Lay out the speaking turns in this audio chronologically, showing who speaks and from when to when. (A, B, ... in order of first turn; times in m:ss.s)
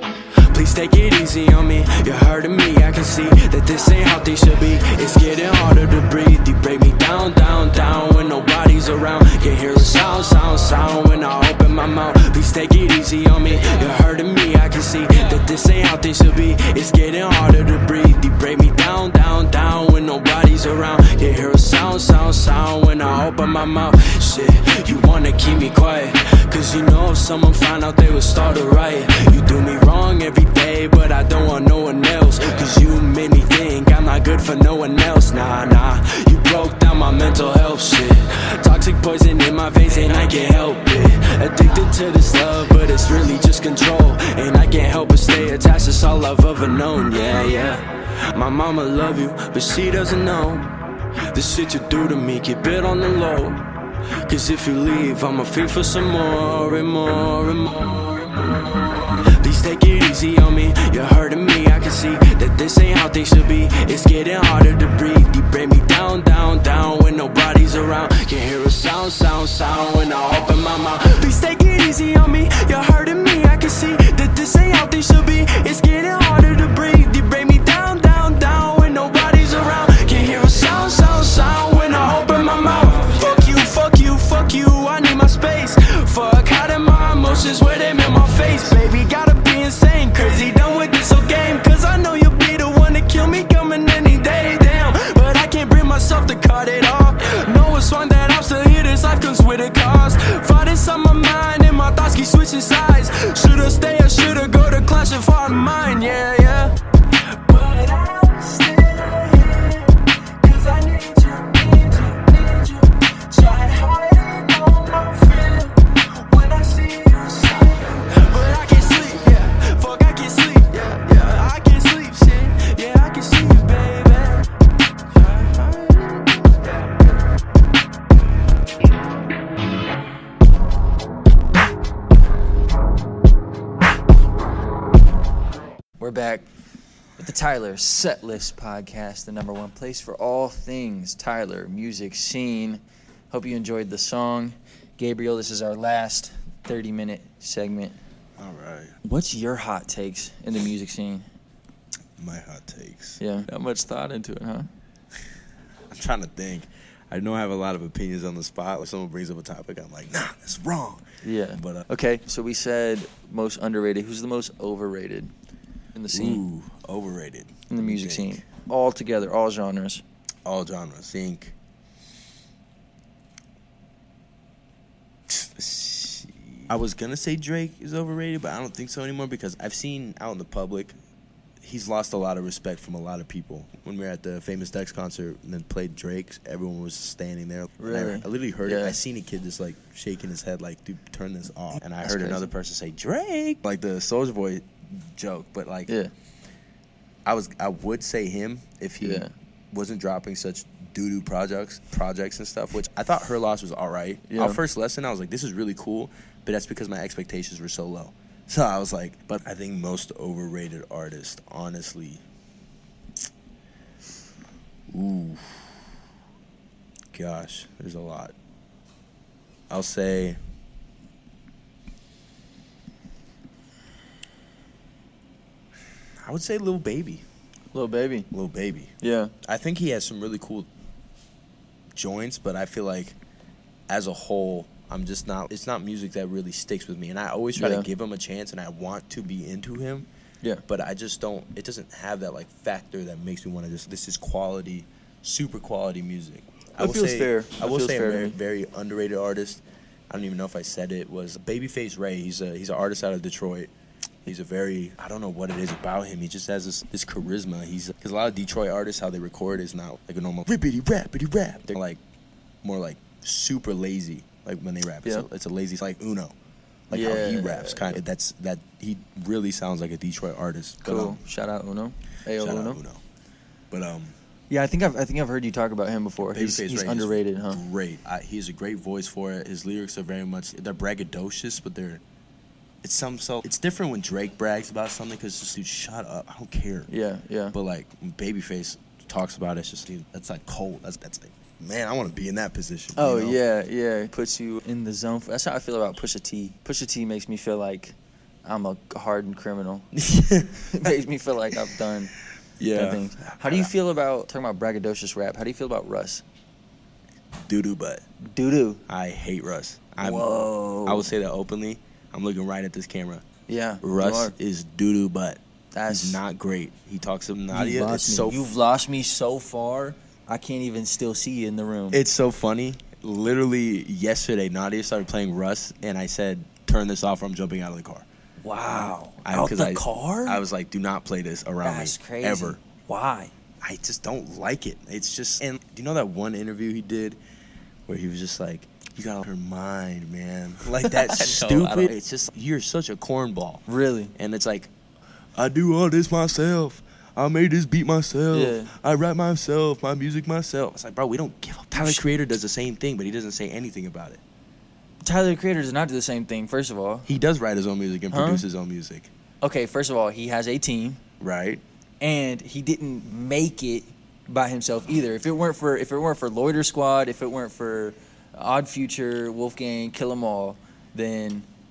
0:00.5-0:50.7 A
0:51.3-0:53.6 A
0:54.3-1:46.7 A
1:47.4-2:04.5 A
2:05.1-2:07.1 A
2:16.0-2:16.5 B
2:17.2-2:28.0 B
2:28.4-2:29.0 C
2:29.0-2:31.3 B
2:32.2-2:33.2 C
2:33.2-2:34.7 B
2:35.9-2:41.9 C
2:41.2-2:45.3 B
2:46.0-2:46.4 B
2:46.1-2:48.5 C
2:47.7-2:50.0 B
2:50.4-2:51.6 C
2:55.3-3:01.0 C
3:01.6-3:15.9 C
3:07.8-3:09.0 B
3:12.0-3:12.5 B
3:17.2-3:32.2 C
3:19.0-3:19.3 B
3:24.3-3:24.6 B
3:34.9-3:35.7 C
3:37.1-3:38.3 C
3:39.7-3:40.4 C
3:46.2-3:47.2 C
3:47.7-3:48.3 B
3:48.3-3:50.7 C
3:49.0-3:49.3 B
3:52.0-3:53.2 C
3:53.9-4:00.1 C
3:57.6-3:57.9 B
4:00.7-4:13.7 C
4:06.8-4:08.4 B
4:14.2-4:22.0 C
4:22.6-4:26.3 C
4:26.9-4:31.2 C
4:26.9-4:28.0 B
4:30.8-4:32.8 B
4:32.4-4:33.0 C
4:33.7-4:34.2 C
4:34.5-4:37.6 B
4:36.2-4:42.0 C
4:42.8-4:46.9 C
4:46.9-4:47.6 B
4:47.5-4:53.4 C
4:53.0-4:59.9 B
5:00.0-5:00.9 C
5:00.7-5:02.1 B
5:02.6-5:03.7 C
5:02.7-5:06.2 B
5:07.4-5:08.0 C
5:08.2-5:08.8 B
5:08.9-5:10.3 C
5:10.0-5:11.1 B
5:10.8-5:13.2 C
5:13.5-5:14.4 B
5:13.8-5:18.5 C
5:15.7-5:16.2 B
5:17.5-5:22.0 B
5:21.9-5:28.1 C
5:28.4-5:30.4 B
5:29.2-5:32.6 C
5:31.6-5:33.3 B
5:33.6-5:37.2 C
5:37.9-5:43.6 C
5:40.8-5:42.0 B
5:43.7-5:44.1 B
5:44.2-5:44.7 C
5:45.4-5:54.2 C
5:48.3-5:48.7 B
5:51.7-5:52.1 B
5:55.0-5:57.1 B
5:57.1-5:59.1 C
5:58.1-5:58.5 B
5:59.4-6:01.0 B
6:01.2-6:01.6 C
6:02.0-6:11.5 B